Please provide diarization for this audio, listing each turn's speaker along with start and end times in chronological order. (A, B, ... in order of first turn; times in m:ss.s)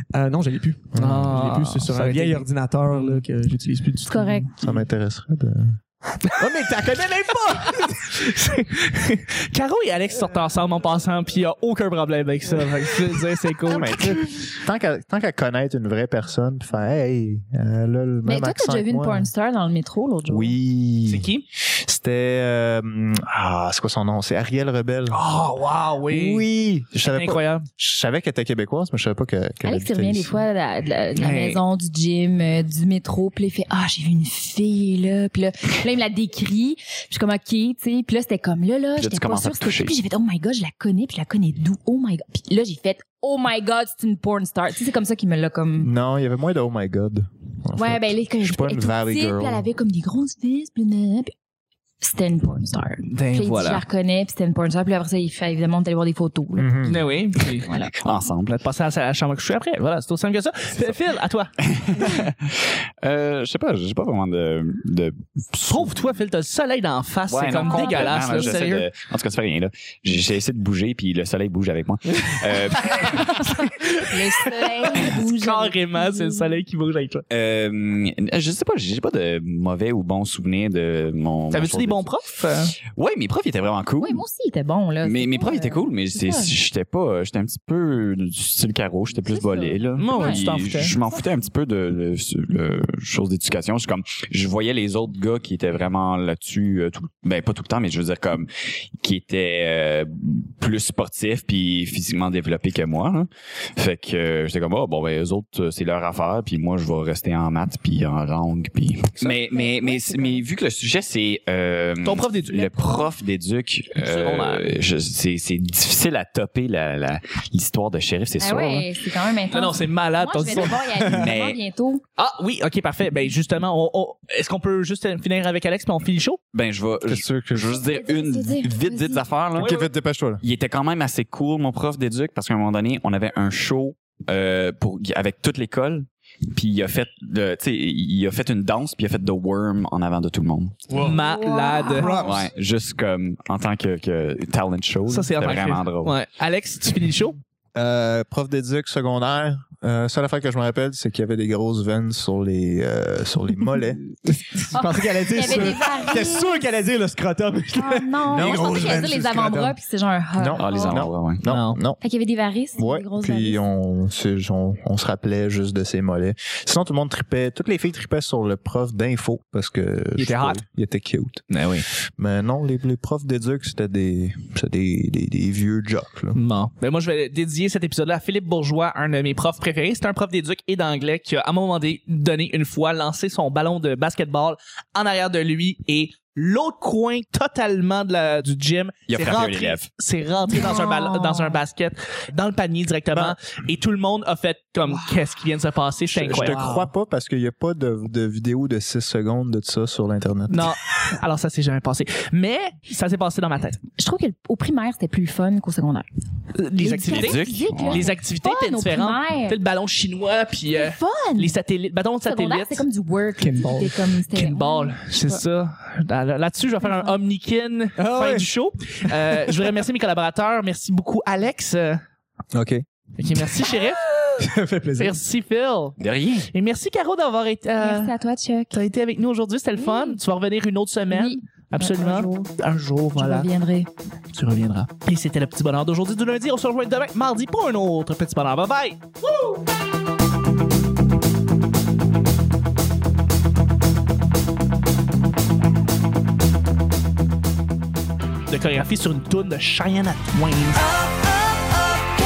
0:00.1-0:04.8 A
0:01.0-0:03.2 B
0:01.0-0:01.3 C
0:04.0-0:04.5 D
0:04.6-0:05.8 C
0:06.4-0:08.2 A
0:07.7-0:14.2 B
0:13.7-0:19.3 C
0:18.2-0:20.6 D
0:20.2-0:25.2 C
0:21.0-0:21.4 B
0:25.1-0:26.4 B
0:26.1-0:30.4 C
0:27.1-0:27.7 B
0:29.6-0:45.9 D
0:31.2-0:31.6 B
0:39.0-0:39.9 E
0:45.8-0:49.6 C
0:47.8-0:51.3 D
0:52.0-0:56.8 D
0:53.1-0:53.8 B
0:56.6-0:57.1 C
0:56.8-0:57.7 B
0:57.6-0:57.9 D
0:57.7-0:58.6 E
0:58.5-1:01.5 B
1:01.6-1:06.0 E
1:05.7-1:08.9 B
1:07.3-1:13.5 E
1:07.6-1:08.7 D
1:13.0-1:16.6 D
1:13.8-1:17.2 B
1:17.3-1:22.1 E
1:21.5-1:22.8 B
1:22.9-1:24.2 E
1:24.0-1:26.5 D
1:25.0-1:58.9 E
1:29.2-1:31.3 D
1:30.0-1:30.9 B
1:49.2-1:50.4 D
1:52.0-1:53.0 B
1:52.7-1:53.1 D
1:54.0-1:54.8 B
1:58.4-2:02.0 D
1:59.5-2:00.8 B
2:01.0-2:01.6 E
2:02.2-2:06.4 B
2:06.5-2:09.7 E
2:07.1-2:07.8 C
2:07.8-2:09.2 D
2:09.6-2:09.9 B
2:09.6-2:10.4 C
2:10.4-2:20.9 E
2:20.9-2:21.2 A
2:21.0-2:22.2 B
2:21.3-2:22.3 D
2:21.9-2:22.5 A
2:22.2-2:26.1 E
2:25.1-2:27.4 B
2:27.7-2:34.0 C
2:33.7-2:39.8 A
2:34.6-2:36.6 D
2:37.7-2:41.0 D
2:38.3-2:39.3 C
2:40.3-2:42.0 C
2:40.6-2:41.4 E
2:41.5-2:41.8 B
2:42.0-2:43.6 D
2:42.8-2:51.4 C
2:50.2-2:50.6 B
2:51.5-2:51.8 B
2:52.2-2:56.4 C
2:56.3-3:16.6 B
3:09.1-3:09.9 E
3:10.5-3:11.6 D
3:16.2-3:20.6 C
3:16.2-3:16.9 A
3:20.5-3:23.8 B
3:24.0-3:26.0 D
3:26.5-3:32.8 B
3:26.8-3:29.6 D
3:27.1-3:28.1 E
3:30.7-3:31.6 D
3:32.2-3:35.4 D
3:33.4-3:34.0 A
3:34.3-3:42.0 B
3:36.8-3:37.2 D
3:38.0-3:38.5 A
3:39.1-3:39.6 A
3:43.2-3:44.0 B
3:44.4-3:45.2 A
3:45.0-3:46.0 B
3:46.0-3:46.5 E
3:46.5-3:48.1 B
3:47.8-3:48.8 D
3:48.7-3:53.5 B
3:49.8-3:50.2 D
3:51.1-3:52.5 D
3:53.2-3:53.9 D
3:54.3-3:59.4 B
4:08.5-4:10.9 B